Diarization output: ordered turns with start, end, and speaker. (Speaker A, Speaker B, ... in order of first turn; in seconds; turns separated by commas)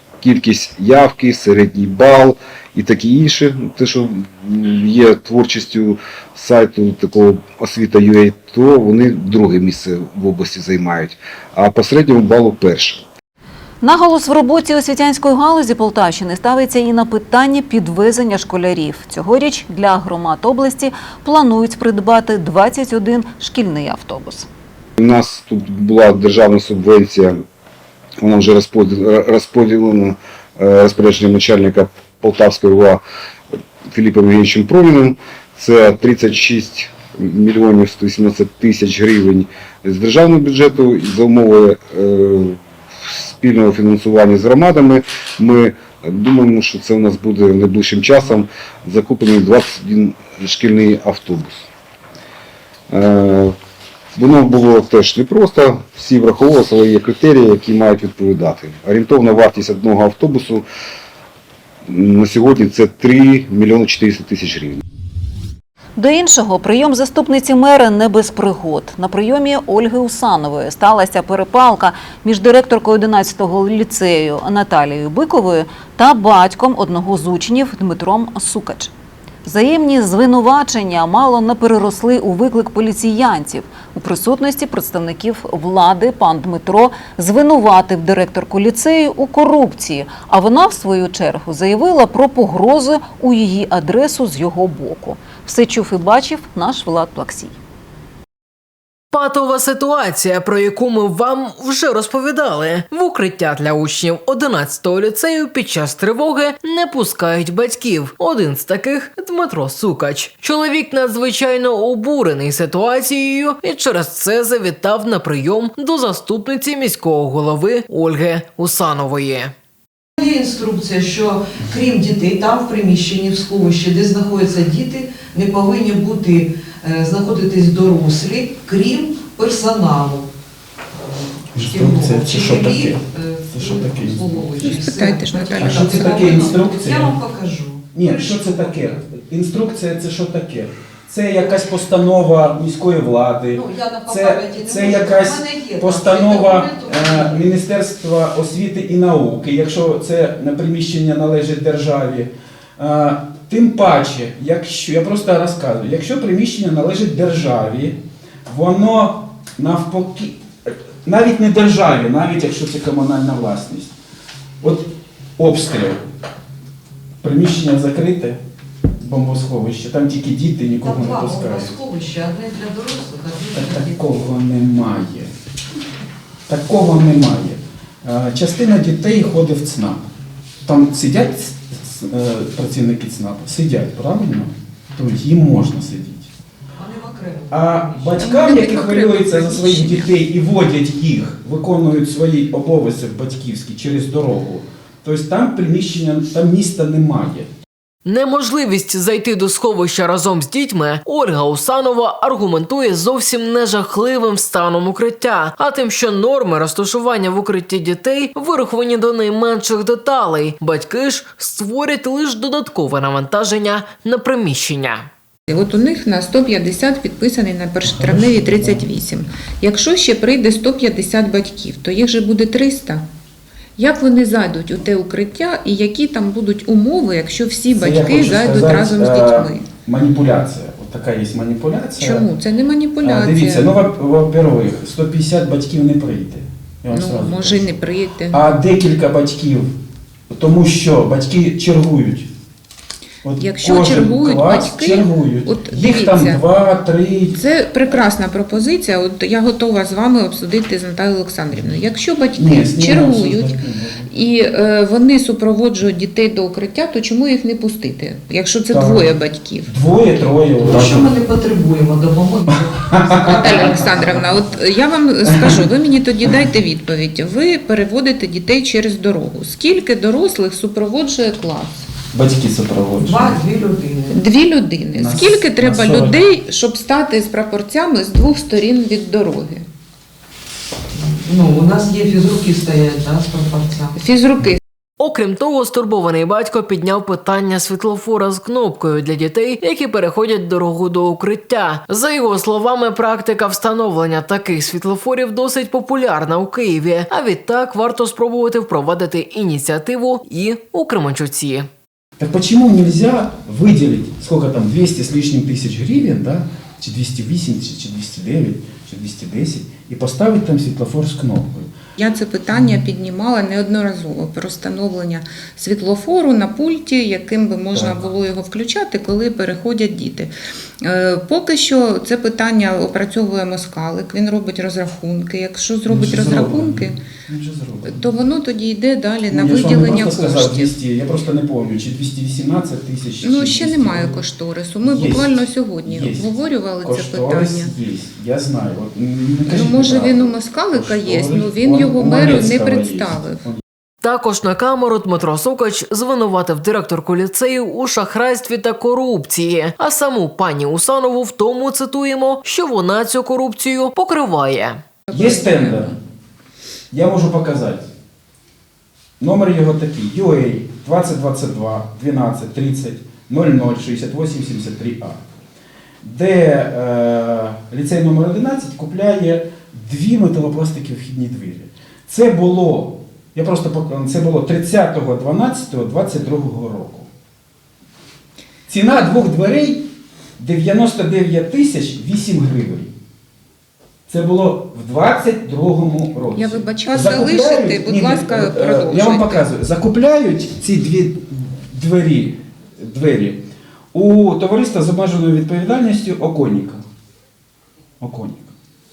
Speaker A: 0.2-13.0, Speaker B: 13.8-24.5, Speaker A: 25.0-27.4, Speaker A: 28.2-33.0, Speaker A: 33.9-51.7, Speaker A: 52.9-53.5, Speaker A: 54.1-60.6, Speaker A: 61.9-64.8, Speaker B: 66.0-78.9, Speaker B: 79.4-97.5, Speaker C: 99.1-119.5, Speaker D: 120.2-130.3, Speaker D: 130.9-139.0, Speaker E: 131.5-134.7, Speaker F: 134.6-136.0, Speaker E: 135.6-137.2, Speaker E: 137.9-163.9, Speaker D: 143.5-147.5, Speaker E: 164.6-166.0, Speaker E: 167.2-168.4, Speaker E: 169.0-171.7, Speaker D: 170.8-174.0, Speaker E: 173.5-175.3, Speaker E: 176.5-180.0, Speaker E: 180.6-186.3, Speaker D: 186.8-188.3, Speaker E: 187.5-197.5, Speaker F: 188.2-190.1, Speaker C: 198.0-215.1, Speaker F: 215.5-223.1, Speaker E: 218.0-218.9, Speaker F: 223.8-229.7, Speaker E: 227.7-232.3, Speaker F: 232.0-233.7, Speaker E: 233.0-237.8, Speaker F: 236.9-238.4, Speaker E: 238.3-239.7, Speaker E: 240.3-242.3, Speaker E: 243.2-247.4, Speaker F: 243.4-246.4, Speaker F: 247.3-259.7, Speaker E: 252.3-254.1, Speaker E: 258.7-259.1, Speaker E: 259.7-261.1, Speaker D: 260.6-264.1, Speaker E: 262.9-264.0, Speaker F: 263.4-271.9, Speaker E: 265.2-265.7, Speaker E: 272.1-273.4, Speaker D: 273.0-274.2, Speaker F: 274.1-279.6, Speaker E: 274.9-276.2, Speaker D: 280.9-283.9, Speaker F: 283.9-284.6, Speaker C: 285.0-301.7, Speaker E: 302.2-311.7, Speaker F: 312.0-327.0, Speaker E: 312.5-312.8, Speaker E: 317.7-318.1, Speaker E: 325.9-328.1, Speaker F: 327.8-330.7, Speaker E: 329.3-334.2, Speaker F: 333.2-337.7, Speaker E: 334.8-336.3, Speaker E: 336.8-343.6, Speaker F: 339.4-343.4, Speaker C: 344.0-354.8, Speaker F: 355.1-355.9, Speaker E: 355.1-355.9, Speaker E: 356.9-357.9, Speaker E: 359.2-365.2, Speaker E: 366.0-377.1, Speaker E: 378.7-379.9, Speaker E: 380.4-382.9, Speaker E: 384.1-396.8, Speaker F: 386.3-389.5, Speaker E: 398.0-398.5